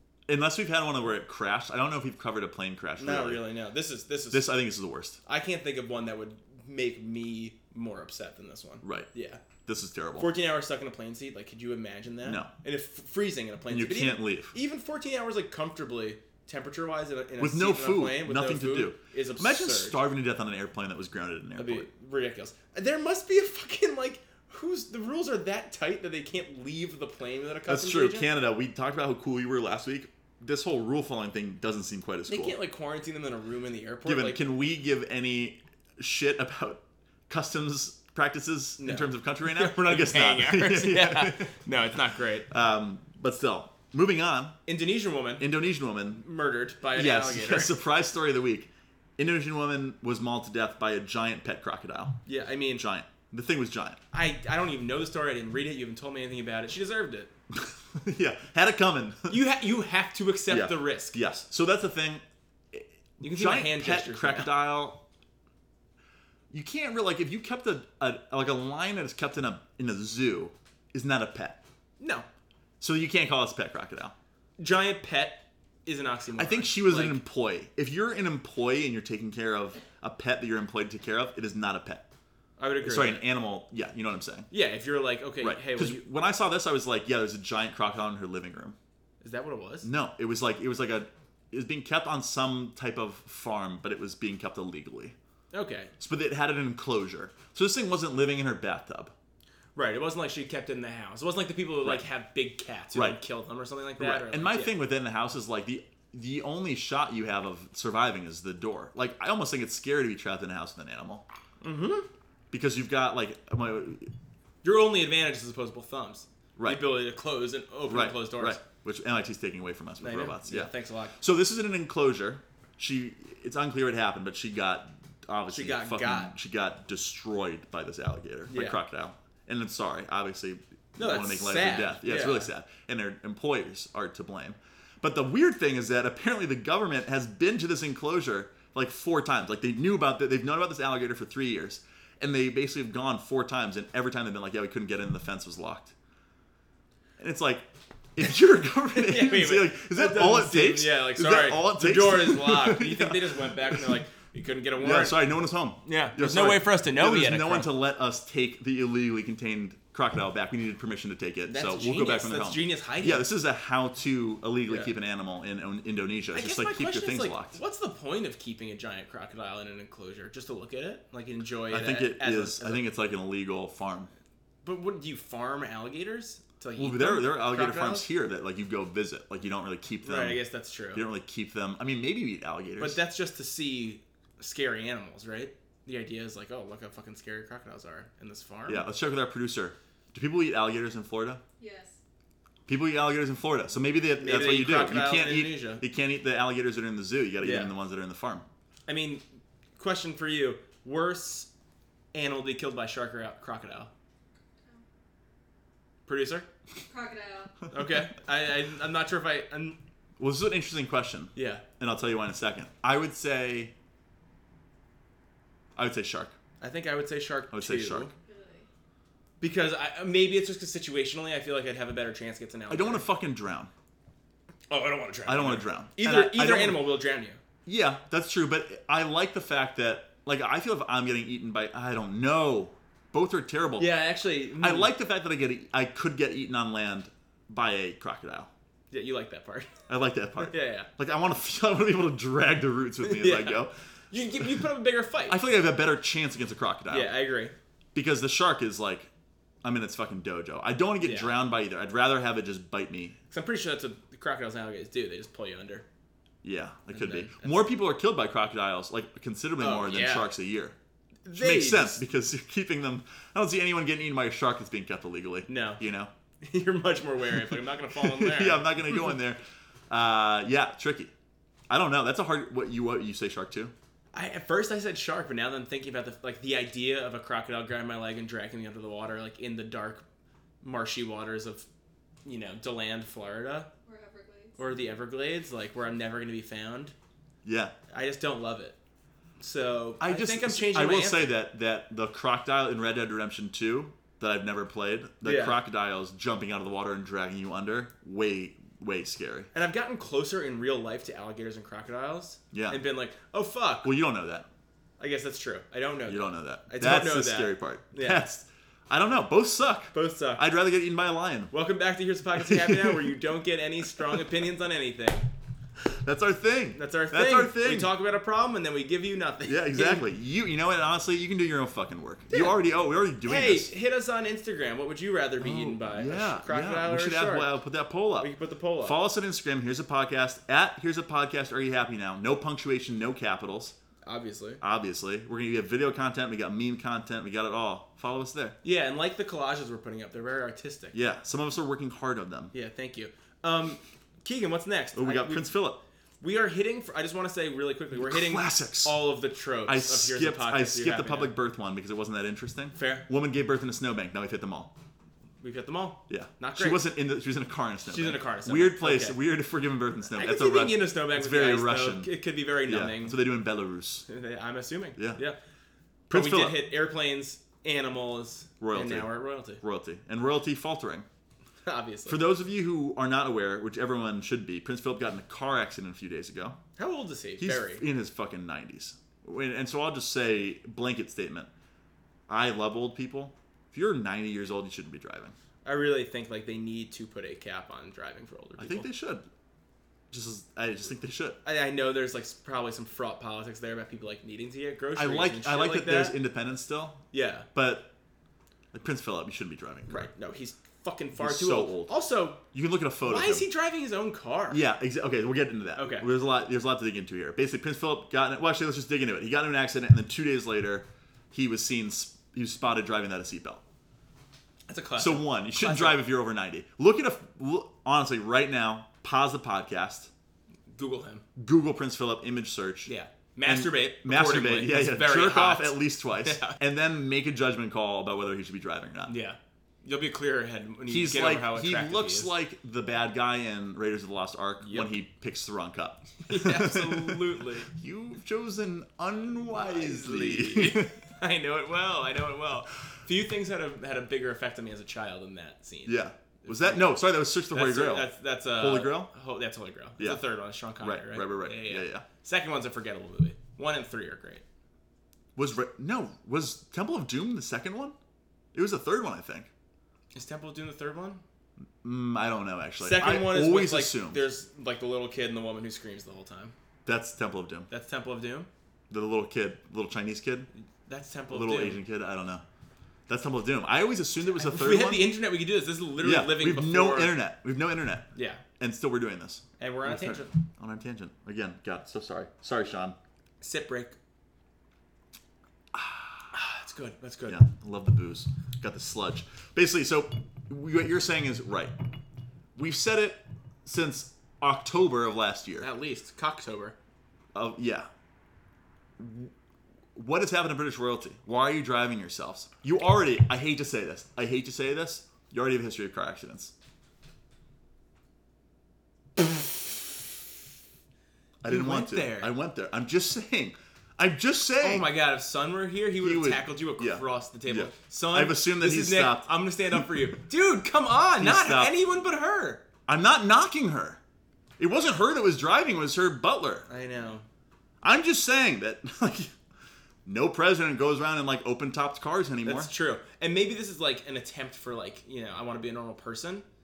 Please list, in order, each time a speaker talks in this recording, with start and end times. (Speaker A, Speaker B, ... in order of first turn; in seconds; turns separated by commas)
Speaker A: 0.3-3.4, Speaker B: 3.0-4.5, Speaker A: 4.3-5.2, Speaker B: 5.2-9.4, Speaker A: 8.8-9.1, Speaker A: 9.6-10.3, Speaker B: 10.2-20.0, Speaker A: 12.2-12.5, Speaker A: 13.7-14.5, Speaker A: 17.4-21.9, Speaker B: 21.6-28.3, Speaker A: 27.7-32.6, Speaker B: 32.3-34.4, Speaker A: 34.0-41.5, Speaker B: 38.8-42.5, Speaker A: 42.5-44.6, Speaker B: 44.7-45.5, Speaker A: 45.4-46.2, Speaker B: 46.2-47.8, Speaker A: 46.9-52.2, Speaker B: 52.2-52.8, Speaker A: 52.7-54.0, Speaker B: 54.1-57.3, Speaker A: 57.5-59.4, Speaker B: 59.3-61.2, Speaker A: 60.5-65.0, Speaker B: 63.2-64.5, Speaker A: 66.5-71.6, Speaker B: 72.0-72.2, Speaker A: 72.8-74.1, Speaker B: 74.6-77.2, Speaker A: 76.4-82.0, Speaker B: 82.6-83.2, Speaker A: 82.8-84.5, Speaker B: 84.5-86.0, Speaker A: 85.4-88.8, Speaker B: 89.2-89.9, Speaker A: 89.8-95.1, Speaker B: 95.5-95.9, Speaker A: 96.0-99.1, Speaker B: 99.7-104.7, Speaker A: 102.9-103.2, Speaker A: 104.0-111.2, Speaker B: 111.6-112.1, Speaker A: 112.5-114.1, Speaker B: 114.6-118.6, Speaker A: 116.6-116.8, Speaker A: 117.9-145.9, Speaker B: 120.0-121.2, Speaker B: 125.5-126.3, Speaker B: 128.5-128.8, Speaker B: 131.0-132.5, Speaker A: 147.2-154.0, Speaker B: 148.9-155.2, Speaker A: 154.8-167.6, Speaker B: 155.8-157.7, Speaker B: 161.5-163.3, Speaker B: 166.3-172.8, Speaker A: 171.7-174.1, Speaker B: 174.6-178.1, Speaker A: 176.8-180.4, Speaker B: 180.0-181.0, Speaker A: 180.9-183.0, Speaker B: 182.8-188.8, Speaker A: 188.7-191.4, Speaker C: 191.6-192.0, Speaker A: 192.7-198.4, Speaker B: 194.2-195.8, Speaker B: 197.4-197.7, Speaker B: 198.9-199.2, Speaker B: 199.8-201.5, Speaker B: 202.1-203.9, Speaker B: 206.1-206.5, Speaker C: 206.9-207.6, Speaker B: 207.7-209.8, Speaker A: 210.2-213.7, Speaker B: 211.3-211.6, Speaker A: 215.8-216.3, Speaker B: 216.6-218.1, Speaker A: 217.5-218.1, Speaker C: 218.2-218.7, Speaker B: 219.4-223.1, Speaker A: 222.7-223.7, Speaker B: 224.7-227.4, Speaker A: 225.2-226.8, Speaker A: 227.7-233.9, Speaker B: 233.8-234.9, Speaker A: 234.6-238.5, Speaker B: 238.9-239.7, Speaker A: 239.9-243.7, Speaker B: 240.4-240.9, Speaker B: 243.0-245.4, Speaker A: 245.3-247.2, Speaker B: 246.9-247.5, Speaker A: 247.9-249.1, Speaker A: 249.6-253.2, Speaker B: 251.0-251.3, Speaker B: 253.3-255.8, Speaker A: 256.4-260.8, Speaker B: 256.9-257.6, Speaker B: 259.6-260.3, Speaker B: 261.2-262.0, Speaker A: 261.3-266.1, Speaker B: 265.5-265.8, Speaker B: 266.4-268.7, Speaker A: 267.9-271.1, Speaker A: 271.7-273.7, Speaker B: 274.1-280.0, Speaker B: 280.6-281.6, Speaker B: 282.2-283.7, Speaker C: 283.9-284.8, Speaker B: 284.6-286.9, Speaker A: 287.4-287.7, Speaker B: 287.9-288.8, Speaker B: 289.4-291.3, Speaker A: 290.0-299.5, Speaker B: 295.2-295.6, Speaker B: 299.5-303.9, Speaker A: 302.5-302.8, Speaker A: 303.8-304.4, Speaker B: 305.0-308.2, Speaker A: 306.1-311.5, Speaker B: 309.9-310.4, Speaker B: 311.5-315.3, Speaker A: 312.4-313.1, Speaker A: 315.8-317.9, Speaker B: 316.7-320.1, Speaker A: 319.4-323.7, Speaker B: 322.3-322.6, Speaker B: 323.2-327.5, Speaker A: 325.4-328.3, Speaker B: 328.2-329.0, Speaker A: 328.8-333.7, Speaker B: 334.0-334.6, Speaker A: 334.6-338.6, Speaker B: 338.6-340.9, Speaker A: 340.9-342.5, Speaker B: 342.5-345.4, Speaker A: 344.9-345.8, Speaker B: 346.2-351.3, Speaker A: 347.9-349.0, Speaker A: 349.6-354.7, Speaker B: 352.7-353.1, Speaker B: 355.4-356.8, Speaker A: 356.1-362.1, Speaker B: 357.9-359.2, Speaker B: 360.1-363.1, Speaker A: 362.6-364.1, Speaker B: 364.1-365.4, Speaker A: 366.1-366.6, Speaker B: 366.1-369.6, Speaker A: 368.6-371.1, Speaker B: 371.6-372.3, Speaker A: 372.1-376.6, Speaker B: 376.8-377.8, Speaker A: 377.4-381.5, Speaker A: 382.3-385.3, Speaker B: 385.6-388.9, Speaker A: 388.6-389.2, Speaker A: 390.1-391.4, Speaker B: 391.4-396.1, Speaker A: 394.9-397.9, Speaker B: 397.1-397.5, Speaker A: 398.7-400.1, Speaker B: 399.9-402.4, Speaker A: 401.1-401.9, Speaker A: 402.4-403.5, Speaker B: 403.0-404.6, Speaker A: 404.5-413.6, Speaker B: 405.8-406.1, Speaker B: 414.7-416.0, Speaker A: 415.0-420.1, Speaker B: 420.7-421.2, Speaker A: 421.4-422.9, Speaker B: 422.9-426.6, Speaker A: 423.4-429.1, Speaker B: 429.1-432.3, Speaker A: 430.9-440.9, Speaker B: 434.6-434.9, Speaker B: 436.2-437.7, Speaker B: 439.5-447.0, Speaker A: 445.8-449.1, Speaker B: 447.5-454.4, Speaker A: 450.8-452.0, Speaker A: 455.4-457.9, Speaker A: 458.5-459.5, Speaker B: 460.1-461.2, Speaker A: 461.8-464.2, Speaker B: 462.8-466.5, Speaker A: 466.9-467.7, Speaker B: 467.7-468.5, Speaker A: 468.9-470.5, Speaker B: 470.9-471.8, Speaker A: 471.3-472.4, Speaker A: 473.1-475.1, Speaker B: 474.4-477.1, Speaker A: 476.0-478.1, Speaker B: 478.1-478.4, Speaker A: 478.6-482.9, Speaker B: 479.6-480.3, Speaker B: 483.4-483.9, Speaker A: 485.7-486.3, Speaker B: 486.3-487.4, Speaker A: 487.3-491.7, Speaker A: 492.6-495.7, Speaker B: 495.6-496.8, Speaker A: 497.3-497.9, Speaker A: 499.0-499.3, Speaker A: 499.9-506.5, Speaker A: 511.4-514.9, Speaker B: 511.4-512.3, Speaker B: 514.6-522.6, Speaker A: 516.0-519.8, Speaker A: 521.2-521.7, Speaker A: 522.9-524.0, Speaker A: 524.6-526.7, Speaker B: 526.7-527.2, Speaker A: 527.8-529.3, Speaker A: 530.0-532.7, Speaker B: 532.4-536.4